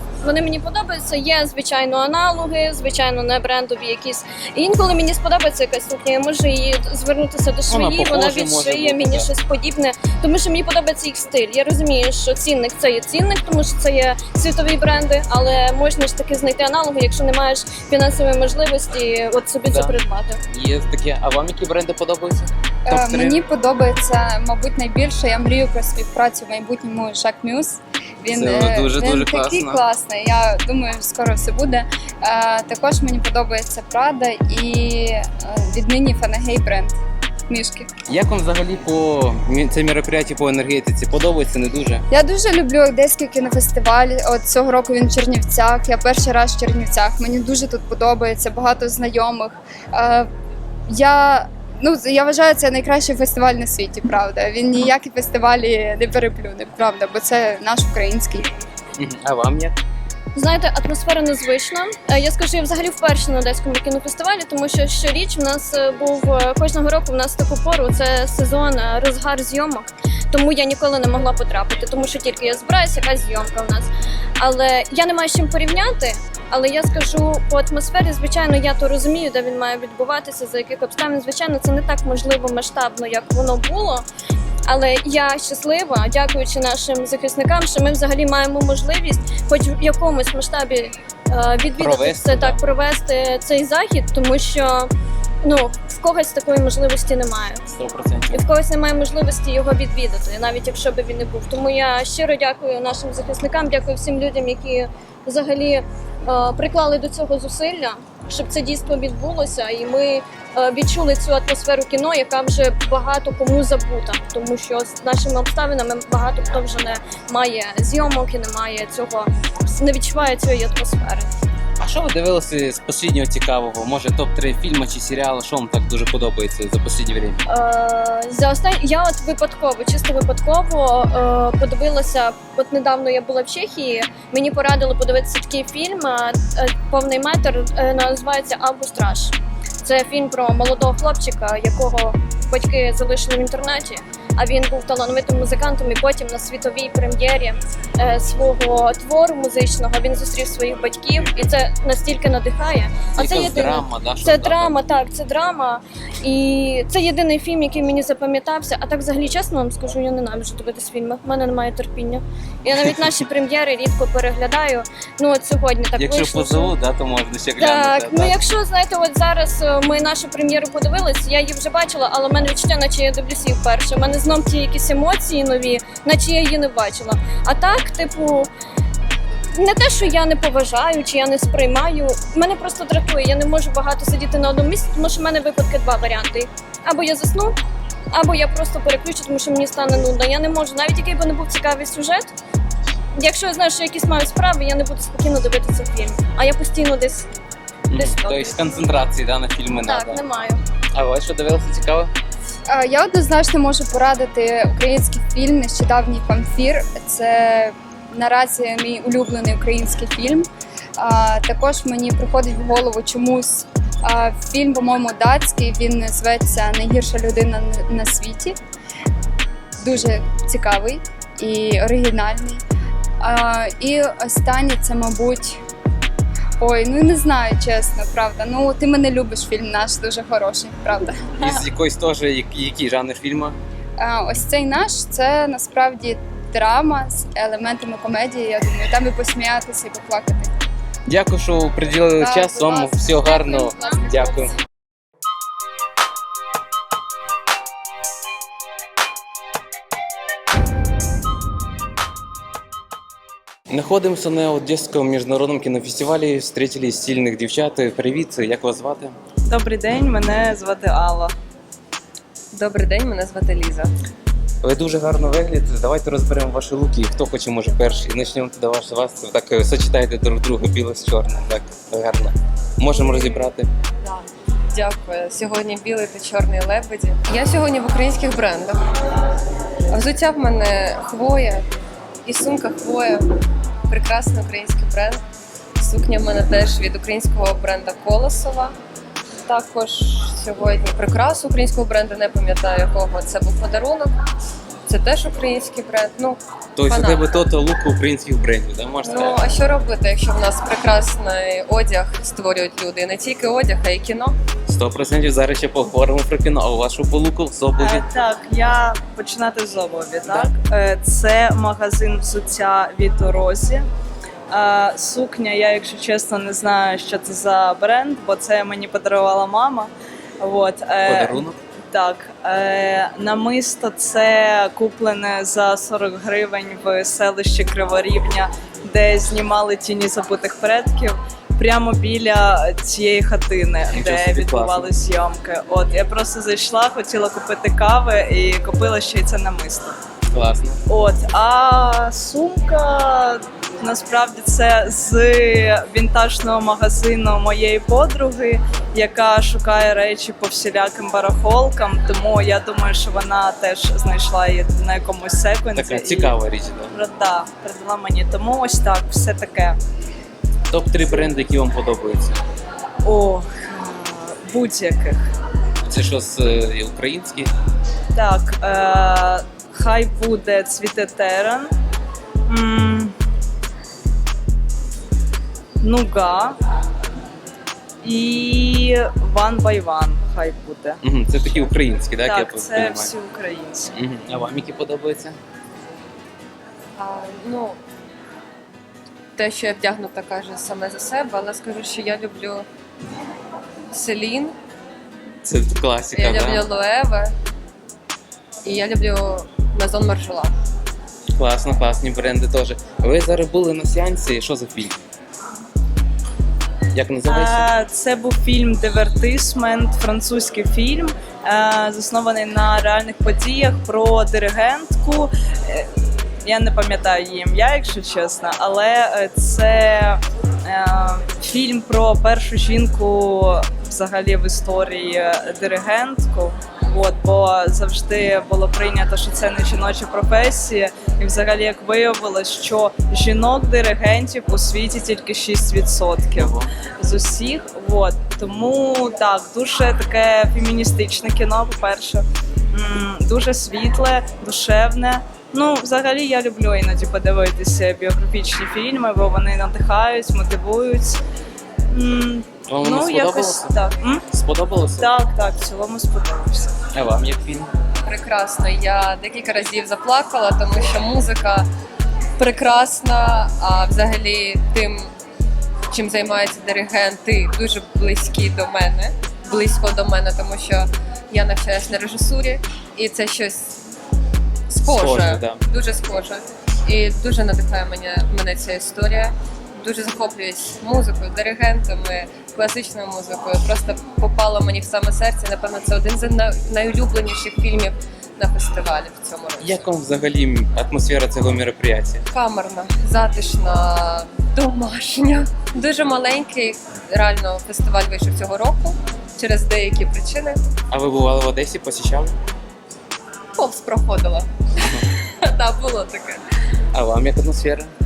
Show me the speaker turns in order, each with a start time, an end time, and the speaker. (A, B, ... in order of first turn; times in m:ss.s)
0:00.2-0:20.4 A
0:07.7-0:09.3 B
0:19.7-0:19.9 B
0:20.5-0:23.4 B
0:22.8-0:36.9 C
0:28.3-0:29.8 B
0:37.5-0:37.9 C
0:38.1-0:42.0 B
0:42.1-0:50.3 C
0:50.9-0:58.5 C
0:59.0-0:59.8 B
1:00.3-1:24.0 A
1:24.6-1:34.9 A
1:31.7-1:32.6 B
1:35.4-1:37.6 A
1:37.7-1:38.4 B
1:38.3-2:01.3 A
2:01.8-2:07.4 B
2:07.5-2:46.7 A
2:33.1-2:34.8 B
2:46.0-2:48.4 B
2:47.6-2:58.5 A
2:59.5-3:07.6 A
3:08.1-3:12.3 A
3:13.2-3:17.3 A
3:17.9-3:20.2 B
3:17.9-3:18.6 A
3:19.8-3:20.6 A
3:20.9-3:22.1 B
3:22.7-3:38.6 C
3:39.8-3:42.6 C
3:43.2-3:45.6 C
3:46.6-3:51.6 C
3:51.4-3:53.6 B
3:54.0-4:00.5 C
4:01.0-4:04.6 B
4:02.2-4:04.0 C
4:03.2-4:04.5 A
4:13.7-4:19.1 B
4:19.4-4:21.3 D
4:22.5-4:23.9 E
4:24.6-4:33.7 B
4:33.0-4:33.5 E
4:34.0-4:38.9 E
4:39.9-4:41.6 E
4:42.2-4:43.2 E
4:43.9-4:45.2 E
4:45.8-4:48.7 E
4:49.4-4:54.1 E
4:54.9-4:57.3 E
4:56.7-4:59.5 B
4:59.0-5:04.3 E
5:04.7-5:08.0 B
5:07.8-5:13.8 D
5:14.5-5:40.0 D
5:21.0-5:21.6 B
5:33.9-5:34.9 B
5:40.3-5:40.8 B
5:40.9-5:56.4 D
5:55.7-5:56.9 B
5:56.9-5:59.8 D
6:00.7-6:02.4 B
6:03.0-6:05.3 D
6:05.8-6:07.5 B
6:08.1-6:11.7 D
6:12.5-6:13.1 D
6:15.8-6:16.6 D
6:18.0-6:21.0 D
6:21.0-6:23.1 B
6:22.2-6:23.9 D
6:23.9-6:25.4 B
6:27.0-6:27.8 E
6:29.4-6:32.6 E
6:33.9-6:34.5 E
6:35.4-6:36.6 B
6:36.1-6:37.3 E
6:38.6-6:40.5 E
6:41.4-6:45.0 B
6:46.9-6:47.7 B
6:47.2-6:55.9 D
6:56.4-7:31.2 D
7:16.4-7:16.7 B
7:31.9-7:34.2 D
7:32.7-7:33.7 B
7:34.3-7:35.1 B
7:35.0-7:36.7 D
7:36.9-7:37.7 B
7:38.0-7:41.7 E
7:42.4-7:45.1 E
7:45.9-7:53.8 E
7:54.7-8:09.9 E
7:54.8-7:55.6 B
8:09.6-8:12.2 B
8:12.3-8:20.6 E
8:20.9-8:22.3 B
8:23.6-8:26.4 E
8:26.9-8:27.9 B